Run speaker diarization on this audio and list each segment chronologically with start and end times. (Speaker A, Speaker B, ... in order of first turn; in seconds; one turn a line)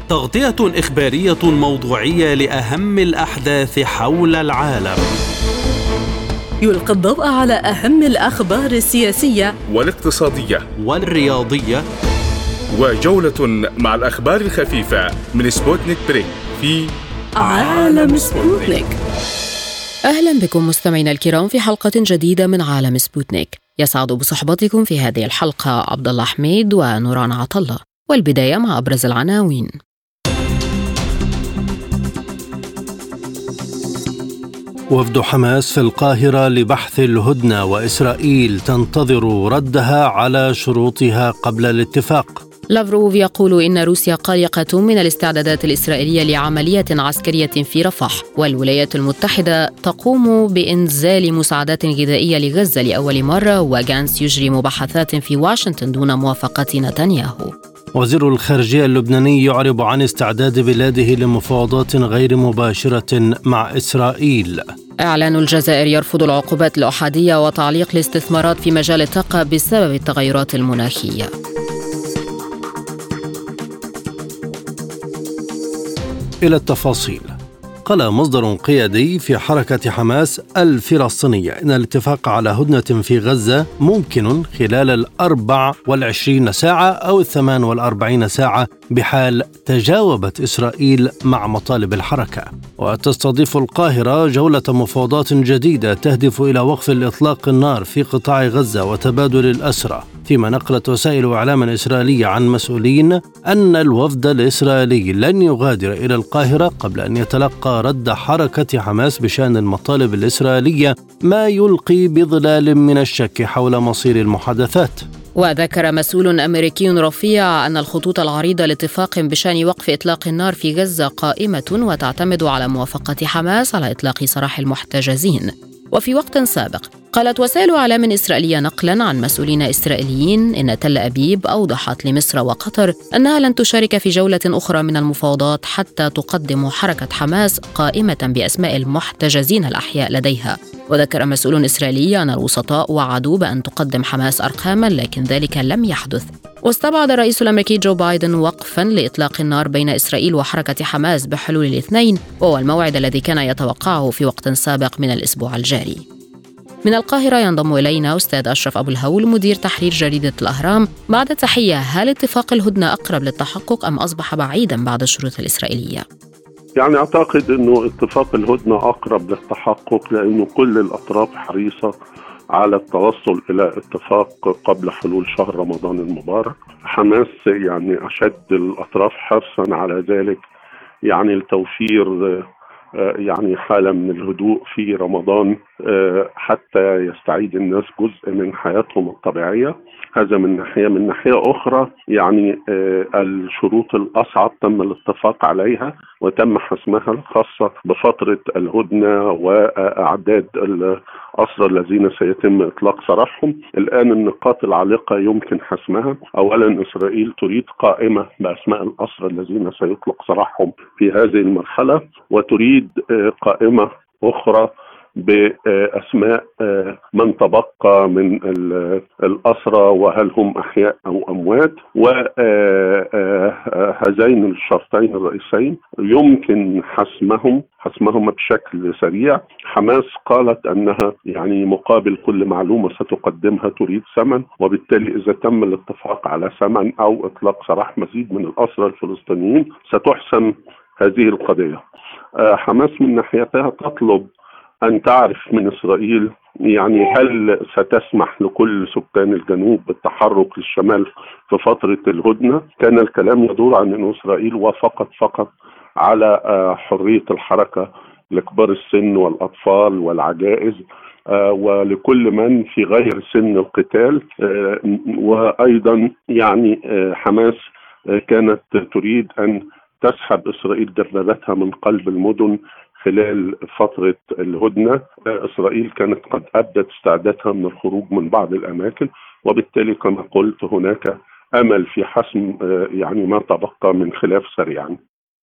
Speaker A: 0.1-5.1
Speaker B: 6.6-9.5
Speaker C: 9.7-10.7
Speaker A: 10.8-11.8
Speaker C: 12.7-18.8
Speaker B: 17.4-18.9
Speaker D: 20.1-29.7
Speaker E: 34.9-42.4
Speaker D: 42.7-57.5
Speaker E: 58.0-64.6
Speaker D: 65.0-71.3
Speaker E: 76.4-115.0
Speaker D: 115.4-156.0
Speaker D: 156.8-166.0
Speaker F: 166.8-171.9
Speaker F: 172.5-180.4
Speaker F: 181.1-241.8
Speaker F: 242.4-244.3
Speaker F: 244.8-255.5
Speaker F: 256.0-285.0